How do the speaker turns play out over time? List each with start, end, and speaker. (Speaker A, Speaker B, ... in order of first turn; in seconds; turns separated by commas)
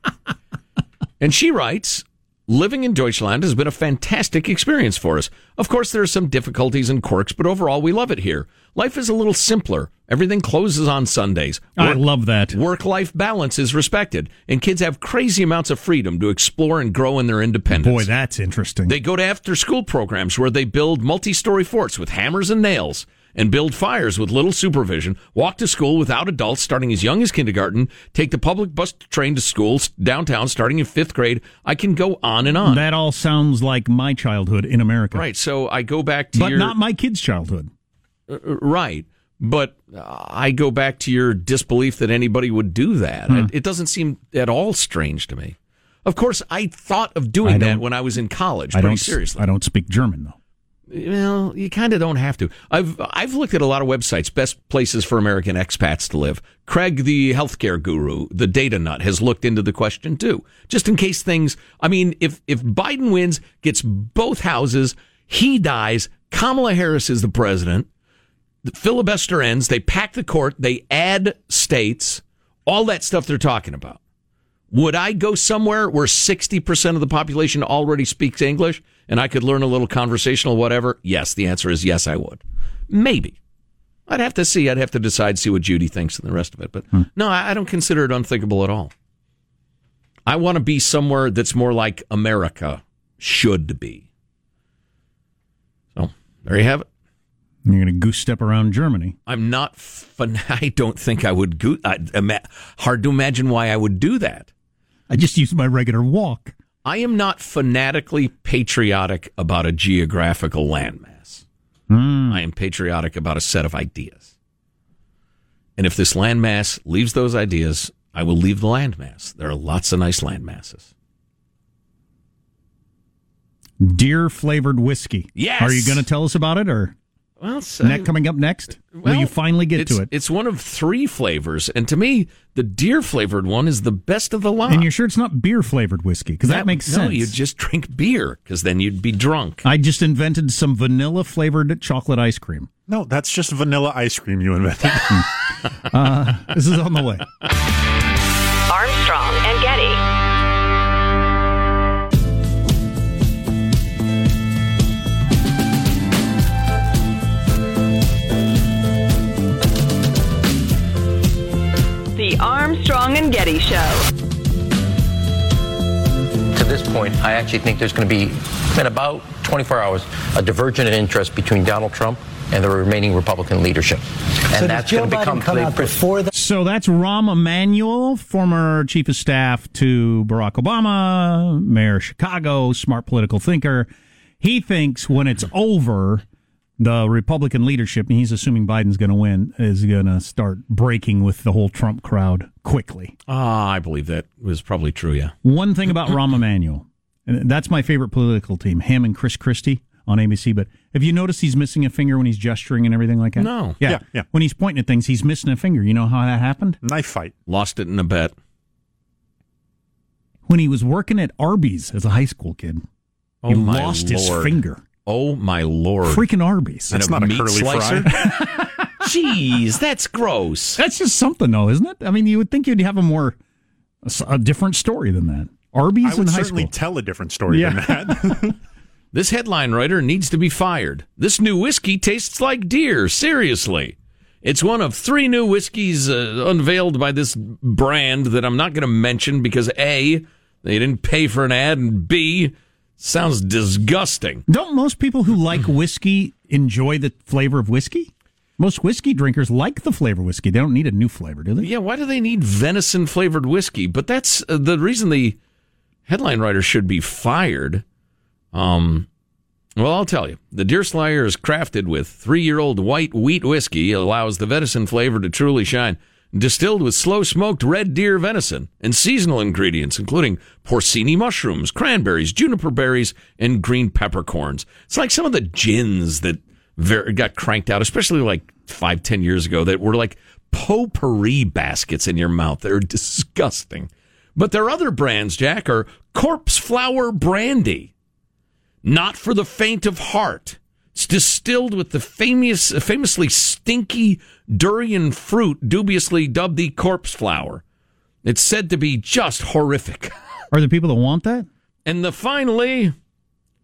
Speaker A: 1.2-18.1, Speaker B: 11.8-12.6, Speaker B: 17.7-18.9, Speaker A: 18.9-32.8, Speaker B: 32.6-35.2, Speaker A: 35.1-36.7, Speaker B: 36.3-37.7, Speaker A: 38.3-49.4, Speaker B: 47.4-47.8, Speaker B: 48.7-50.4, Speaker A: 50.9-67.9, Speaker A: 68.6-74.0, Speaker A: 74.7-83.3, Speaker A: 84.1-88.9, Speaker A: 90.3-94.0, Speaker A: 96.0-96.8, Speaker B: 97.7-99.2, Speaker A: 99.3-104.5, Speaker B: 105.1-106.5, Speaker A: 106.8-111.4, Speaker B: 111.9-112.4, Speaker A: 112.3-114.3, Speaker A: 115.8-120.9, Speaker B: 123.8-126.9, Speaker A: 125.3-126.0, Speaker A: 127.4-128.1, Speaker B: 127.8-130.1, Speaker A: 128.9-134.9, Speaker B: 134.7-137.3, Speaker A: 136.4-139.6, Speaker B: 139.6-142.7, Speaker C: 142.9-145.3, Speaker B: 145.9-147.2, Speaker D: 148.7-150.0, Speaker D: 162.1-164.1, Speaker E: 166.5-176.2, Speaker B: 176.3-183.9, Speaker B: 184.4-186.2, Speaker B: 186.8-193.1, Speaker A: 193.3-195.3, Speaker B: 195.4-206.8, Speaker A: 203.4-203.8, Speaker C: 203.8-204.2, Speaker C: 206.8-207.3, Speaker A: 207.5-208.3, Speaker B: 210.5-212.8, Speaker A: 213.4-216.2, Speaker B: 213.5-214.8, Speaker B: 216.1-216.9, Speaker C: 216.9-218.1, Speaker A: 216.9-220.8, Speaker B: 218.1-218.7, Speaker B: 220.8-223.4, Speaker B: 224.0-226.7, Speaker C: 226.0-228.6, Speaker B: 227.5-228.5, Speaker A: 229.1-244.4, Speaker B: 244.5-251.7, Speaker A: 251.6-255.4, Speaker A: 256.1-257.8, Speaker A: 258.5-259.1, Speaker A: 259.8-287.9, Speaker A: 288.8-297.6, Speaker A: 298.2-300.1, Speaker B: 300.5-301.5, Speaker A: 301.9-302.9